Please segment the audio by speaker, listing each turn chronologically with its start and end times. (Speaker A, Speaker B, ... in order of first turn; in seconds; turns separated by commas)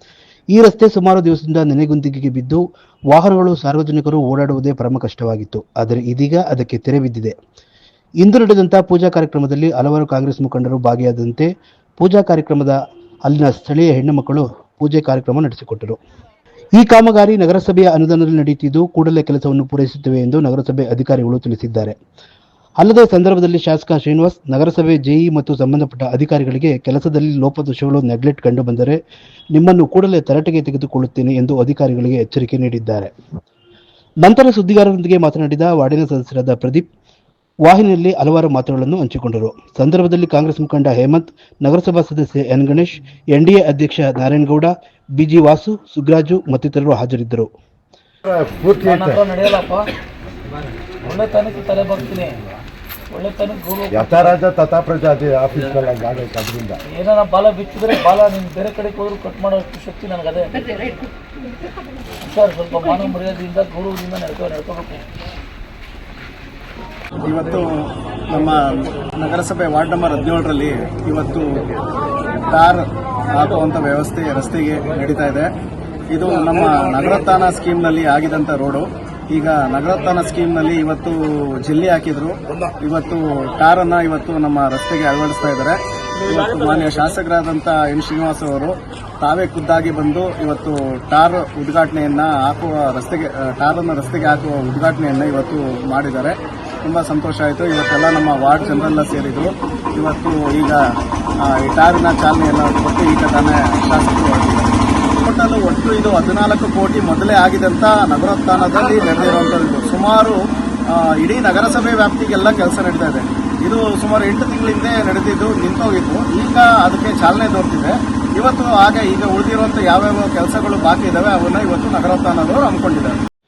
Speaker A: 0.5-7.3, Speaker A: 8.2-16.0, Speaker A: 16.8-22.0, Speaker A: 22.8-29.0, Speaker A: 29.5-33.1, Speaker A: 34.2-36.9, Speaker A: 37.6-47.5, Speaker B: 48.3-49.1, Speaker C: 48.7-49.9, Speaker C: 51.0-52.4, Speaker C: 53.1-54.4, Speaker B: 54.2-56.8, Speaker C: 56.9-60.6, Speaker C: 62.2-65.0, Speaker D: 67.2-67.7, Speaker D: 68.3-71.7, Speaker D: 72.5-75.5, Speaker D: 76.1-100.8, Speaker D: 101.4-123.2